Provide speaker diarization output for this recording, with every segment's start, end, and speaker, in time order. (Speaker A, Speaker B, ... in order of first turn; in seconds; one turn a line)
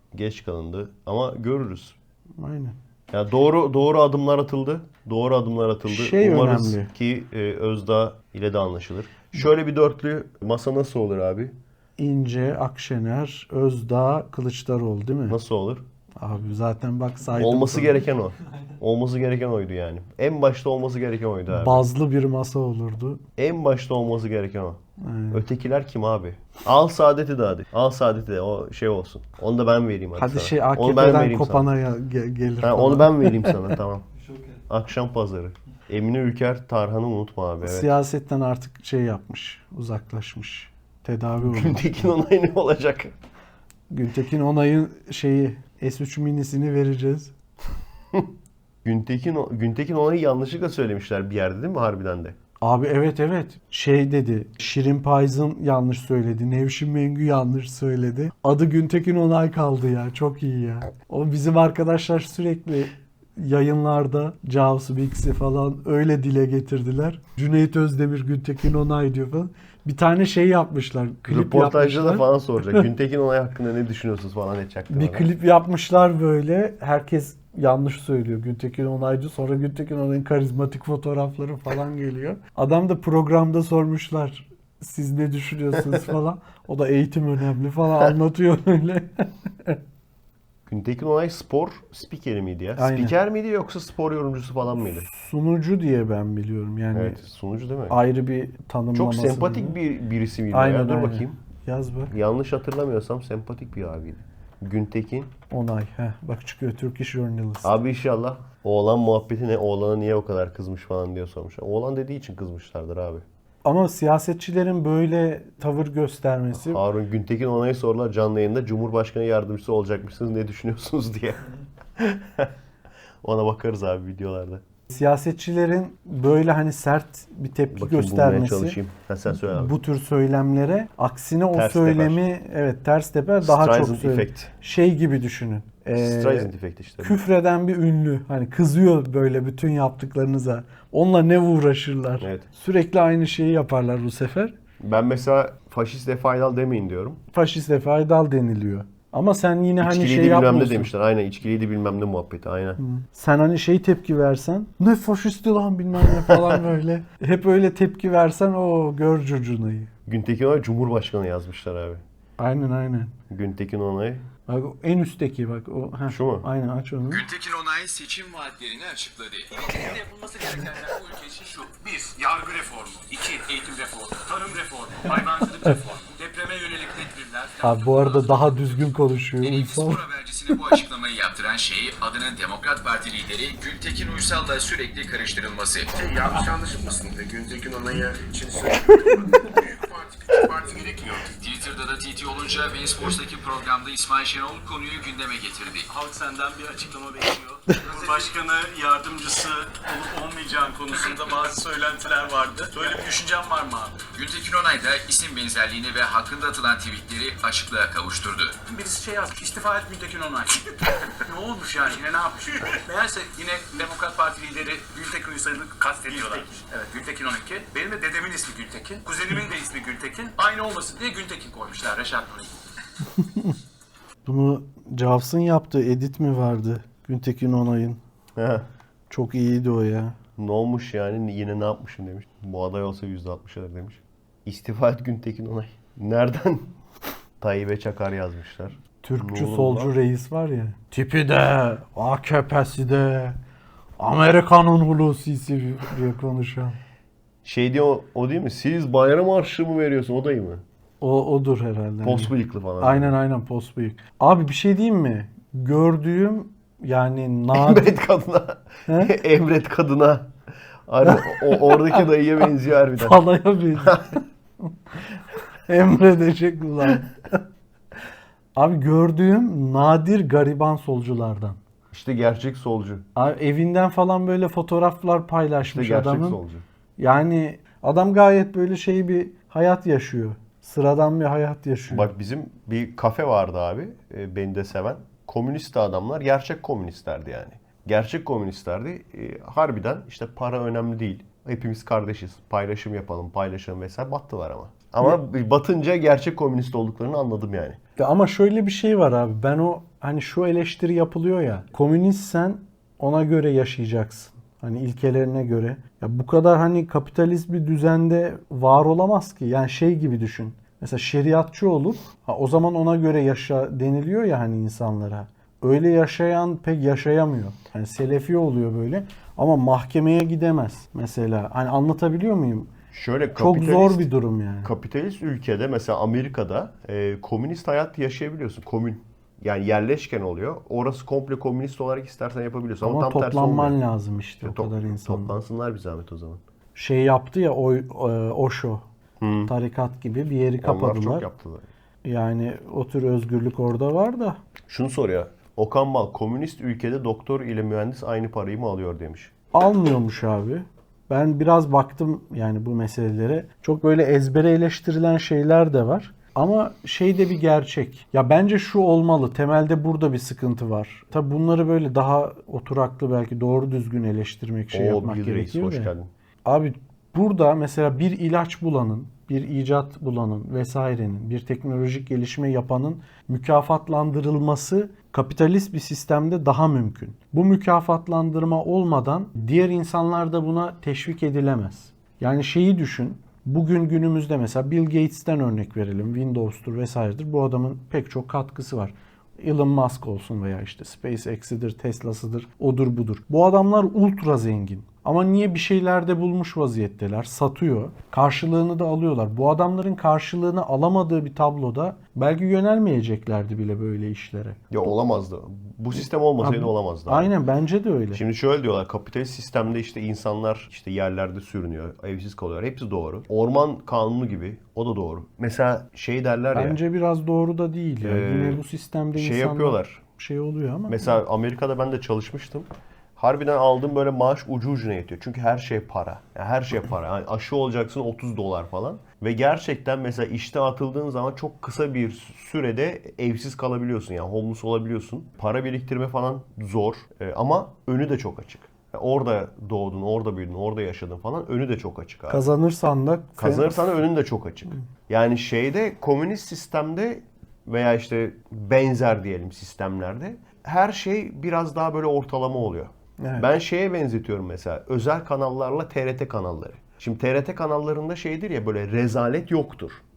Speaker A: 0.1-1.9
Speaker B: 2.4-2.8
Speaker A: 3.1-11.6
Speaker B: 5.8-6.9
Speaker B: 12.0-15.4
Speaker A: 15.3-15.8
Speaker B: 16.2-18.0
Speaker A: 17.4-21.8
Speaker B: 21.5-23.2
Speaker A: 23.4-24.8
Speaker B: 25.0-25.4
Speaker A: 25.3-31.7
Speaker B: 30.1-33.7
Speaker A: 32.6-34.1
Speaker A: 34.7-37.9
Speaker B: 37.6-41.8
Speaker A: 41.4-43.1
Speaker B: 43.9-47.3
Speaker A: 48.8-52.4
Speaker B: 52.6-72.8
Speaker A: 71.3-75.3
Speaker B: 74.9-89.8
Speaker A: 90.7-95.1
Speaker B: 92.8-93.2
Speaker B: 95.0-97.2
Speaker A: 96.9-98.0
Speaker B: 97.9-99.8
Speaker A: 98.9-101.4
Speaker B: 100.5-102.1
Speaker A: 102.1-105.3
Speaker B: 105.5-107.7
Speaker A: 107.6-113.2
Speaker B: 113.6-116.8
Speaker A: 116.5-122.5
Speaker A: 123.2-124.6
Speaker B: 124.9-128.8
Speaker A: 127.7-129.8
Speaker B: 129.4-136.5
Speaker A: 131.5-132.2
Speaker A: 133.4-134.5
Speaker A: 135.9-137.2
Speaker B: 137.0-144.5
Speaker A: 142.2-142.4
Speaker A: 144.8-147.2
Speaker B: 147.3-150.9
Speaker A: 149.8-152.8
Speaker B: 152.8-159.9
Speaker A: 156.1-156.6
Speaker A: 160.1-162.0
Speaker B: 162.4-163.1
Speaker A: 163.3-164.3
Speaker B: 164.5-167.2
Speaker A: 166.1-166.5
Speaker C: 167.1-171.6
Speaker D: 171.4-177.7
Speaker B: 177.6-180.0
Speaker C: 179.4-185.9
Speaker E: 185.9-191.3
Speaker C: 191.4-195.9
Speaker D: 195.9-204.0
Speaker C: 204.1-208.6
Speaker D: 208.6-222.5
Speaker B: 223.2-223.5
Speaker B: 224.2-228.0
Speaker A: 228.4-228.7
Speaker B: 229.1-230.1
Speaker A: 230.4-236.7
Speaker A: 237.4-239.9
Speaker B: 239.0-243.4
Speaker B: 244.0-246.8
Speaker A: 247.4-250.6
Speaker B: 251.0-257.9
Speaker A: 252.0-253.2
Speaker A: 257.5-260.3
Speaker B: 258.9-259.1
Speaker A: 260.9-263.2
Speaker B: 261.1-261.9
Speaker B: 263.0-264.7
Speaker A: 263.8-264.1
Speaker B: 265.7-267.4
Speaker B: 268.6-271.6
Speaker A: 271.9-273.1
Speaker B: 273.1-276.4
Speaker A: 275.6-276.6
Speaker B: 277.0-282.1
Speaker A: 281.9-297.8
Speaker B: 298.0-322.7
Speaker A: 322.9-324.0
Speaker B: 323.4-324.7
Speaker A: 324.6-333.8
Speaker B: 332.8-335.4
Speaker A: 334.4-336.4
Speaker B: 336.8-338.8
Speaker A: 339.2-339.5
Speaker B: 339.5-341.2
Speaker A: 340.6-341.7
Speaker B: 342.0-344.4
Speaker A: 344.7-349.3
Speaker B: 349.5-365.9
Speaker A: 364.7-366.1
Speaker B: 366.4-404.6
Speaker A: 404.7-407.4
Speaker B: 406.4-408.2
Speaker A: 408.1-416.8
Speaker B: 416.5-421.1
Speaker A: 418.0-418.6
Speaker A: 419.1-420.0
Speaker A: 420.9-442.5
Speaker B: 442.3-444.0
Speaker A: 443.4-460.0
Speaker B: 453.2-453.5